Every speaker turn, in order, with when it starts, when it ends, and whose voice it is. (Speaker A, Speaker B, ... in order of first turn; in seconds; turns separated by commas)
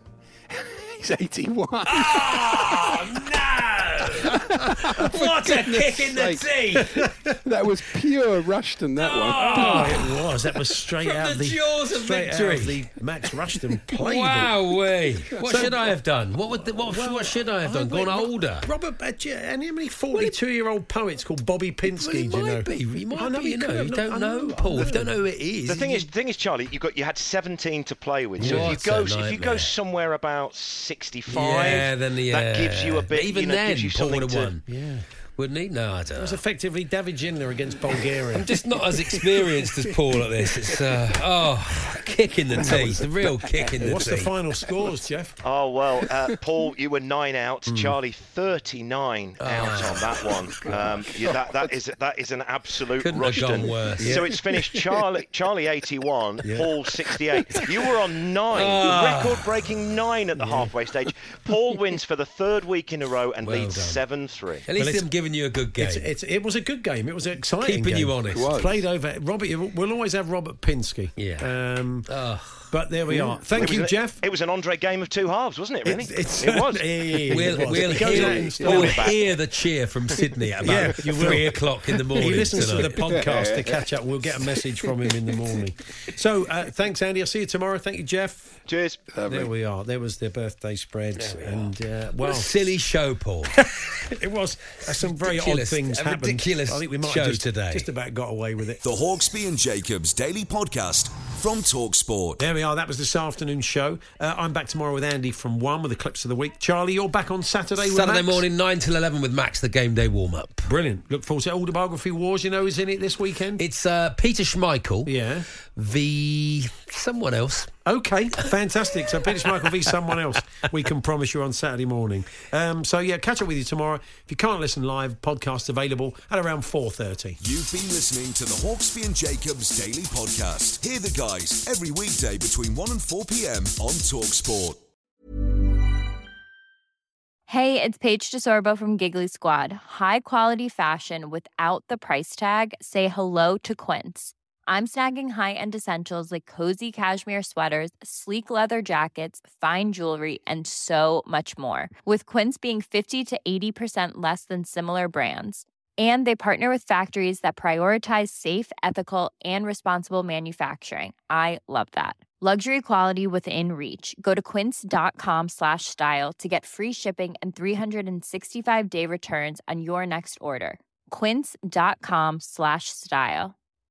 Speaker A: 0.5-3.0, Speaker B: 1.9-7.0, Speaker A: 4.2-6.4, Speaker C: 6.8-7.3, Speaker A: 7.4-9.9, Speaker B: 9.0-10.4, Speaker C: 9.3-14.6, Speaker B: 11.0-12.9, Speaker B: 13.9-18.7, Speaker C: 15.4-15.8, Speaker C: 16.8-25.1, Speaker B: 21.9-26.1, Speaker D: 25.6-34.5, Speaker B: 28.4-29.8, Speaker C: 28.4-28.8, Speaker B: 31.3-34.6, Speaker C: 34.7-35.1, Speaker B: 35.4-36.4, Speaker C: 36.2-38.5, Speaker B: 38.3-44.3, Speaker A: 39.0-39.9, Speaker A: 42.6-43.9, Speaker C: 43.8-45.4, Speaker D: 45.4-64.6, Speaker C: 47.7-48.0, Speaker B: 49.4-50.9, Speaker A: 50.6-51.0, Speaker B: 53.0-54.3, Speaker C: 54.0-54.3, Speaker A: 54.4-54.9, Speaker C: 56.4-56.7, Speaker B: 58.5-59.6, Speaker B: 63.4-64.0, Speaker B: 64.7-66.1, Speaker C: 64.8-65.0, Speaker C: 65.8-72.1, Speaker B: 67.6-68.5, Speaker A: 68.3-68.8, Speaker B: 71.2-71.5, Speaker B: 72.1-72.7, Speaker C: 72.7-74.2, Speaker D: 73.5-76.8, Speaker C: 75.8-79.1, Speaker B: 77.3-83.1, Speaker D: 78.6-79.2, Speaker C: 80.6-81.6, Speaker C: 82.1-88.5, Speaker A: 83.3-83.7, Speaker D: 88.7-89.0, Speaker A: 89.1-89.5, Speaker C: 89.3-92.5, Speaker B: 91.2-93.6, Speaker C: 93.5-98.8, Speaker B: 94.9-97.9, Speaker E: 98.8-102.4, Speaker C: 102.4-108.4, Speaker B: 107.8-110.7, Speaker C: 110.7-113.6, Speaker B: 113.6-115.1, Speaker C: 115.0-115.5, Speaker B: 115.8-117.7, Speaker C: 117.8-127.4, Speaker B: 119.3-119.8, Speaker E: 127.4-134.8, Speaker F: 137.5-173.5